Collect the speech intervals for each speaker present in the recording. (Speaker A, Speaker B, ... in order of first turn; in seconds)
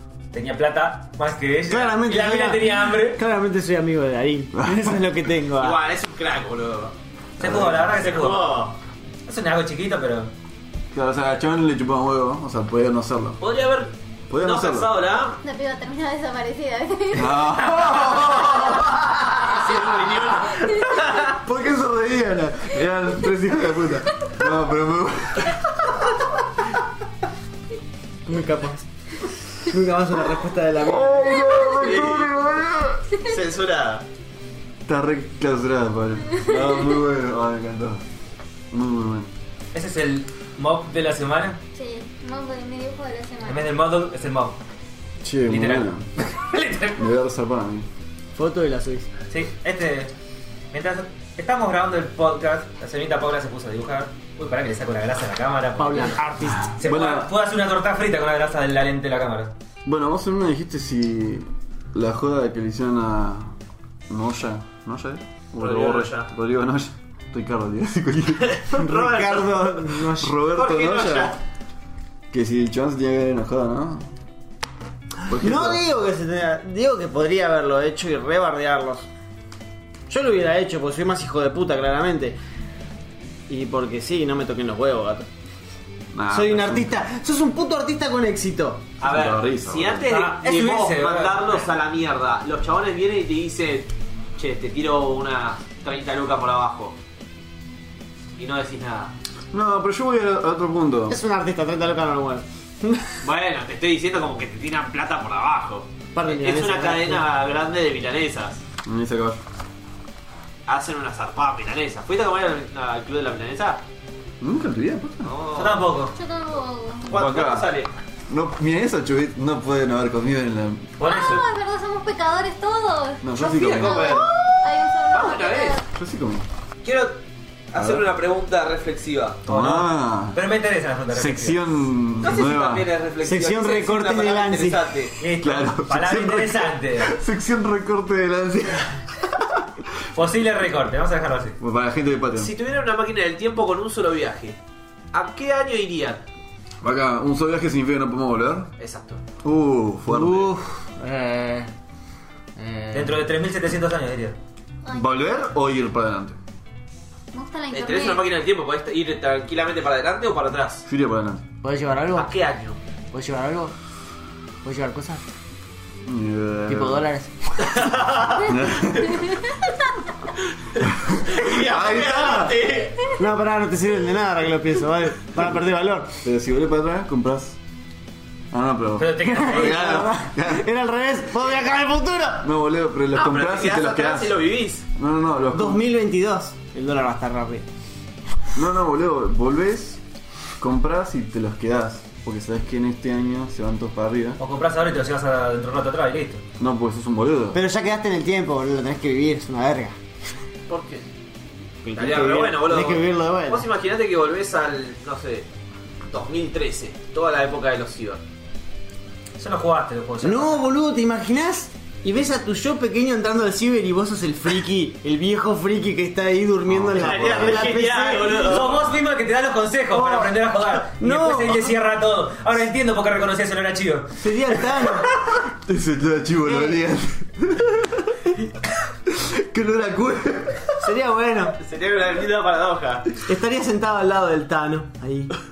Speaker A: 0.3-3.2, 7.4-8.6, 9.3-10.3, 39.7-41.6, 43.5-44.6, 45.5-47.1, 49.3-50.1, 50.7-59.5, 90.1-91.7, 115.5-116.1, 121.0-121.4, 129.5-131.6, 135.2-137.2, 140.1-141.6, 152.9-154.4, 179.0-180.1, 194.4-196.4, 209.4-210.6, 218.1-224.8
Speaker B: 1.7-5.8, 28.3-28.9, 29.6-31.5, 48.4-49.1, 55.8-56.7, 68.8-70.3, 75.3-79.1, 80.1-82.4, 83.5-85.3, 86.3-88.9, 101.1-103.2, 106.2-107.3, 133.2-134.9, 150.1-151.7, 152.6-153.3, 161.6-162.4, 163.1-163.8, 164.6-165.2, 166.7-167.9, 173.2-176.2, 179.4-182.5, 185.5-187.7, 197.5-200.0, 201.8-203.7, 210.2-218.6, 219.9-221.7, 224.2-225.1, 226.5-226.8, 230.8-231.6, 233.3-235.3
Speaker C: 5.6-8.8, 13.4-15.4, 18.3-18.6, 19.2-21.3, 31.6-32.3, 33.2-34.0, 65.6-66.3, 68.4-69.7, 70.5-71.4, 89.0-97.0, 98.4-99.2, 103.2-108.6, 110.7-113.8, 115.2-115.9, 117.1-117.9, 123.3-125.8, 126.8-127.2, 127.7-129.5, 132.2-135.2, 142.4-144.6, 145.1-146.2, 148.8-149.2, 157.7-160.9, 162.1-162.8, 167.9-168.3, 171.2-173.1, 183.1-184.8, 200.7-201.1, 201.9-205.5, 206.1-208.2, 216.9-218.9, 231.6-233.1
Speaker D: 7.4-7.8, 10.9-13.4, 14.3-14.9, 17.1-19.2, 21.1-26.1, 30.8-33.1, 34.9-38.0, 38.7-39.3, 45.2-46.1, 47.0-47.9, 56.8-57.3, 59.9-63.5, 64.1-69.0, 70.1-71.3, 72.3-74.1, 75.3-75.8, 86.1-87.0, 89.0-90.1, 99.5-101.2, 108.8-109.4, 114.4-115.3, 117.1-121.0, 123.2-124.3, 125.9-126.5, 127.8-128.1, 129.5-130.4, 131.1-132.9, 135.4-139.6, 141.6-142.5, 146.8-148.7, 149.4-150.5, 154.9-156.4, 160.9-161.4, 166.1-167.0, 168.4-169.5, 170.8-172.6, 176.2-177.6, 178.5-180.7, 182.4-185.8, 188.5-190.0, 190.6-194.4, 196.6-197.6, 216.7-217.6, 225.2-228.5, 229.1-230.8
Speaker E: 15.4-17.6, 41.8-43.7, 116.1-117.1, 121.0-125.8, 154.9-155.1, 157.3-158.3